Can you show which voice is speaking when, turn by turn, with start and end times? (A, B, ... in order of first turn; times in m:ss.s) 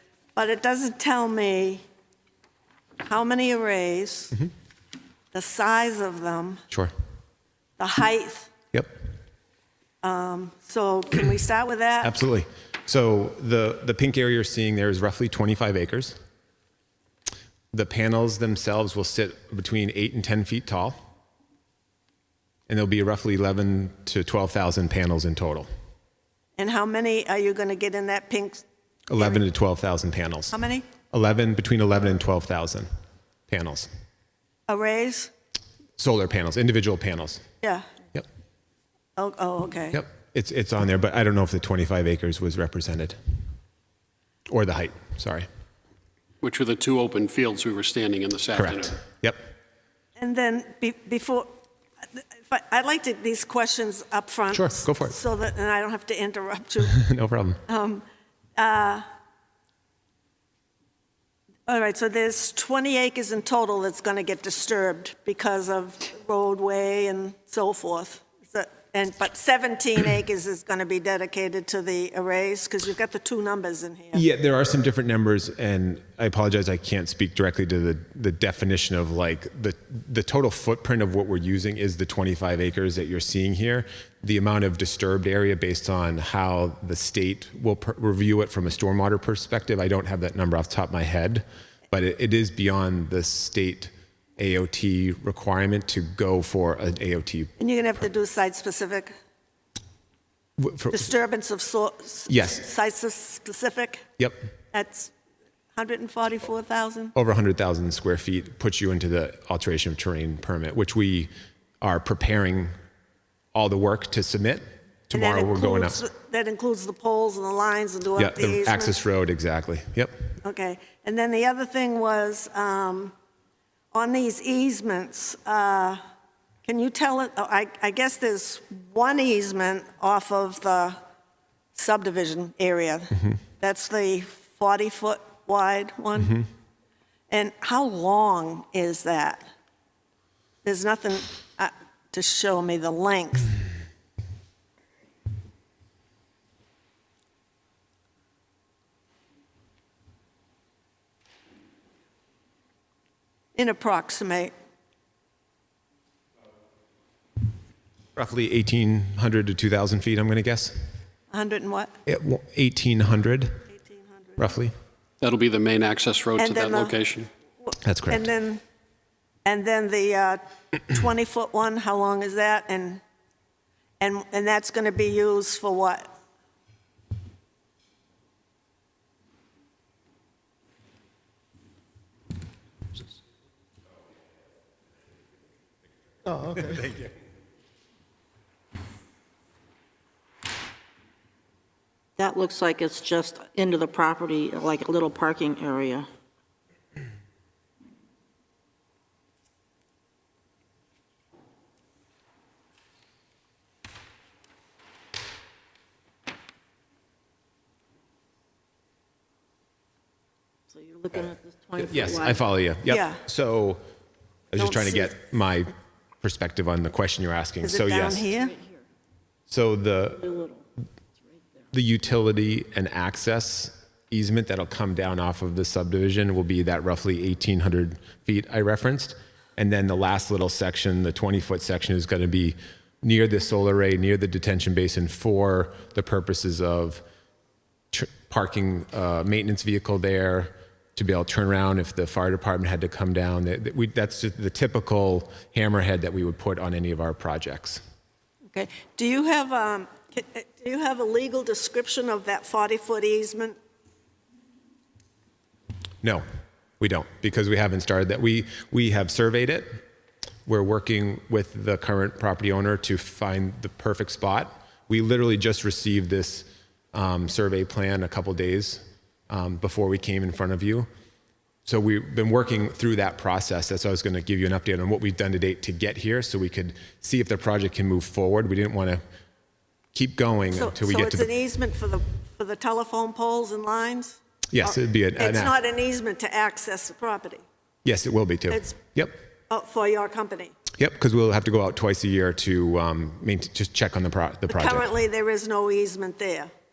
0:00.4-0:01.8 A
0:03.0-0:04.4 A
0:05.3-0:06.6 A
0:07.8-0:08.5 A
0:10.0-0:12.1 A
0:12.0-0:16.2 B
0:17.7-0:21.0 B
0:22.7-0:25.7 B
0:26.6-0:28.6 A
0:29.1-0:30.5 B
0:29.2-0:29.4 A
0:30.5-0:30.9 A
0:31.1-0:32.9 B
0:33.5-0:33.9 B
0:34.7-0:35.3 A
0:36.0-0:37.4 B
0:37.6-0:37.9 A
0:39.2-0:40.0 A
0:39.9-0:43.2 B
0:44.5-0:45.5 B
0:46.4-0:49.0 C
0:48.6-0:49.4 B
0:50.2-0:51.5 A
0:52.1-0:57.0 A
0:54.5-0:55.2 B
0:56.9-0:57.6 B
0:57.7-0:58.0 A
0:58.6-0:59.1 A
1:01.7-1:14.2 A
1:14.1-1:37.5 B
1:37.6-1:39.1 A
1:40.6-1:41.1 B
1:40.9-1:44.1 A
1:42.3-1:42.6 B
1:44.7-1:45.1 A
1:45.8-1:47.1 A
1:47.2-1:51.3 B
1:51.8-1:52.7 B
1:53.5-1:56.0 B
1:55.1-1:59.0 A
1:58.2-2:00.2 B
2:00.4-2:03.1 A
2:03.9-2:06.0 A
2:06.6-2:11.0 A
2:11.8-2:16.4 A
2:17.3-2:19.4 A
2:20.6-2:23.5 A
2:33.6-2:34.5 A
2:38.2-2:40.8 B
2:41.3-2:41.9 A
2:42.1-2:43.6 B
2:43.7-2:44.5 A
2:44.4-2:44.7 B
2:45.2-2:47.3 C
2:46.4-2:47.0 A
2:47.6-2:48.6 A
2:47.8-2:48.3 B
2:49.4-2:53.0 A
2:54.0-2:56.1 A
3:06.6-3:06.9 B
3:12.2-3:16.1 D
3:30.7-3:32.4 D
3:31.8-3:33.8 B
3:32.9-3:33.2 A
3:34.5-3:38.3 B
3:34.6-3:35.1 A
3:37.6-3:38.6 A
3:39.5-3:40.3 B
3:40.3-3:40.6 D
3:41.7-3:57.0 B
3:57.9-4:07.8 B
4:08.5-4:13.6 A
4:16.8-4:19.8 B
4:20.5-4:30.9 B
4:31.7-4:39.0 B
4:39.9-4:41.3 B
4:40.5-4:47.4 A
4:44.5-4:45.5 B
4:47.8-4:49.1 B
4:48.5-4:48.8 A
4:49.5-4:50.6 A
4:50.8-4:54.9 B
4:54.5-4:56.5 A